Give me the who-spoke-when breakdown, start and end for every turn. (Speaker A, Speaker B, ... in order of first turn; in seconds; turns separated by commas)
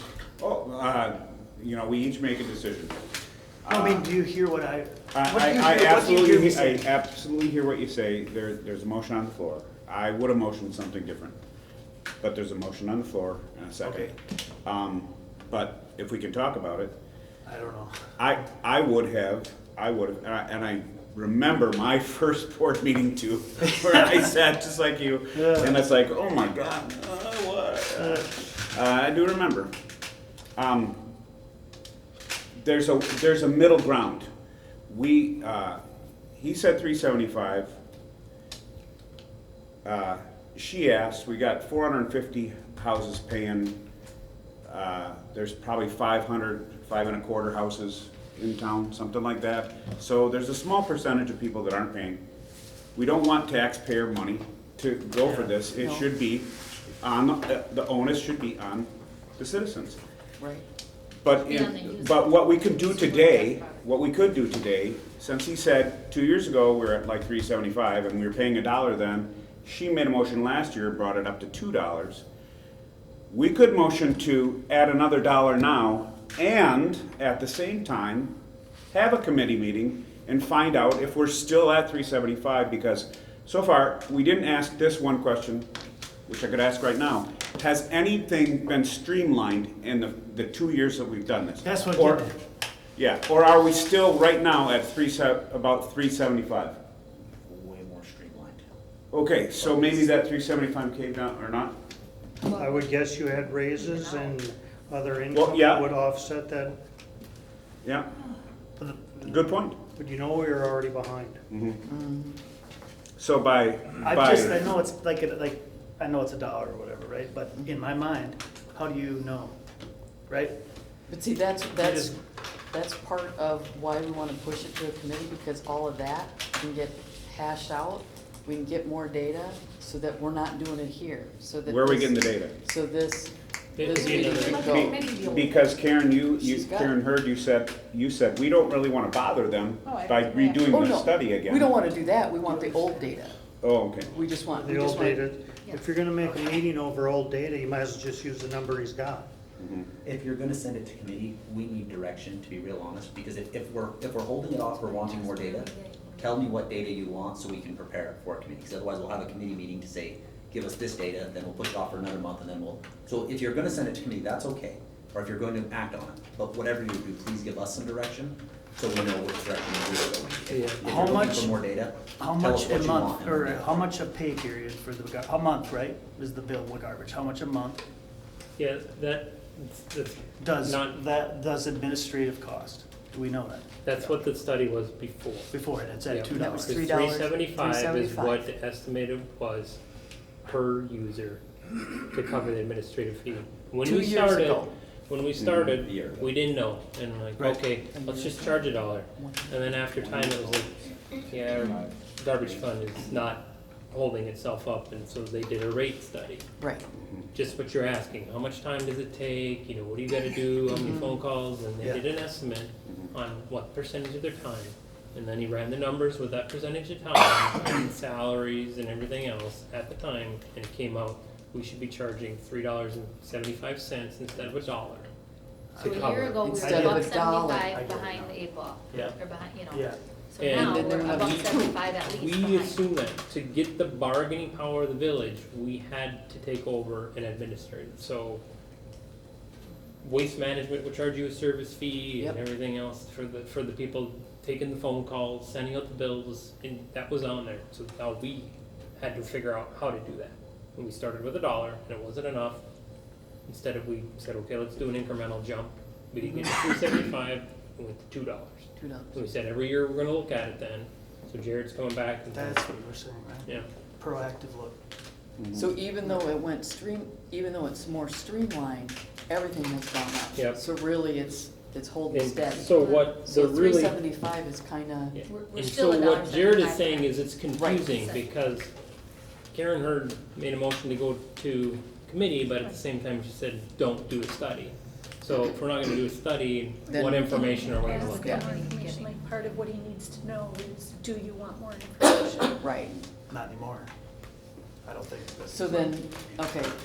Speaker A: 0.4-3.0, Speaker A: 3.6-4.0, Speaker B: 3.7-6.8, Speaker A: 5.1-11.3, Speaker A: 12.2-16.9, Speaker B: 13.8-14.1, Speaker B: 17.4-17.9, Speaker A: 18.2-29.7, Speaker B: 25.3-25.8, Speaker B: 28.0-28.2, Speaker A: 30.6-31.0, Speaker A: 32.6-34.3, Speaker A: 34.9-35.8, Speaker A: 36.4-37.8, Speaker A: 39.8-43.8, Speaker A: 44.7-52.2, Speaker A: 52.9-60.0, Speaker C: 55.7-56.1, Speaker C: 60.4-60.6, Speaker A: 61.2-72.2, Speaker D: 61.4-63.9, Speaker A: 73.3-78.3, Speaker A: 78.9-85.7, Speaker A: 86.3-92.2, Speaker B: 91.6-92.4, Speaker A: 93.0-96.8, Speaker E: 97.4-98.6, Speaker A: 99.1-101.7, Speaker E: 99.6-100.1, Speaker D: 102.4-104.4, Speaker F: 102.5-106.7, Speaker A: 105.3-105.9, Speaker A: 109.2-109.8, Speaker F: 110.0-111.4, Speaker A: 111.5-111.8, Speaker C: 111.8-112.4, Speaker A: 113.2-114.5, Speaker B: 114.0-119.6, Speaker B: 120.3-120.6, Speaker C: 121.1-122.1, Speaker B: 121.8-122.2, Speaker C: 122.7-135.1, Speaker A: 131.6-132.6, Speaker G: 133.8-134.7, Speaker D: 133.9-135.6, Speaker A: 134.6-141.7, Speaker C: 136.3-136.9, Speaker D: 139.8-140.5, Speaker C: 140.7-143.3, Speaker B: 142.4-143.2, Speaker A: 143.6-144.1, Speaker C: 144.1-145.3, Speaker F: 144.6-149.3, Speaker D: 145.6-145.9, Speaker A: 149.6-149.9, Speaker E: 150.0-173.9, Speaker D: 154.5-156.9, Speaker G: 170.5-171.2, Speaker B: 170.8-171.6, Speaker B: 172.2-177.8, Speaker G: 178.6-181.0, Speaker B: 180.4-183.7, Speaker G: 183.8-185.5, Speaker B: 185.5-186.8, Speaker G: 186.0-189.8, Speaker C: 186.3-188.5, Speaker G: 190.4-191.4, Speaker G: 192.1-206.4, Speaker C: 193.8-194.7, Speaker E: 195.5-196.4, Speaker C: 197.9-200.0, Speaker E: 199.9-203.0, Speaker C: 206.6-206.8, Speaker G: 207.3-225.1, Speaker C: 210.7-211.2, Speaker B: 225.7-229.2, Speaker G: 225.8-226.3, Speaker D: 225.8-232.8, Speaker C: 226.4-227.7, Speaker B: 229.7-230.0, Speaker G: 230.4-238.4, Speaker C: 230.5-231.8, Speaker G: 240.0-252.6, Speaker G: 253.4-262.6, Speaker C: 256.2-256.5, Speaker C: 258.8-259.2, Speaker B: 262.3-264.8, Speaker A: 265.4-265.7, Speaker C: 265.5-275.1, Speaker G: 272.1-274.1, Speaker G: 275.1-278.7, Speaker D: 275.2-277.2, Speaker C: 277.5-277.9, Speaker D: 277.9-278.2, Speaker G: 279.5-288.3, Speaker C: 286.9-288.5, Speaker H: 287.3-292.6, Speaker D: 287.8-289.3, Speaker C: 292.6-292.9, Speaker B: 293.3-293.9, Speaker B: 294.8-296.1, Speaker C: 295.5-296.7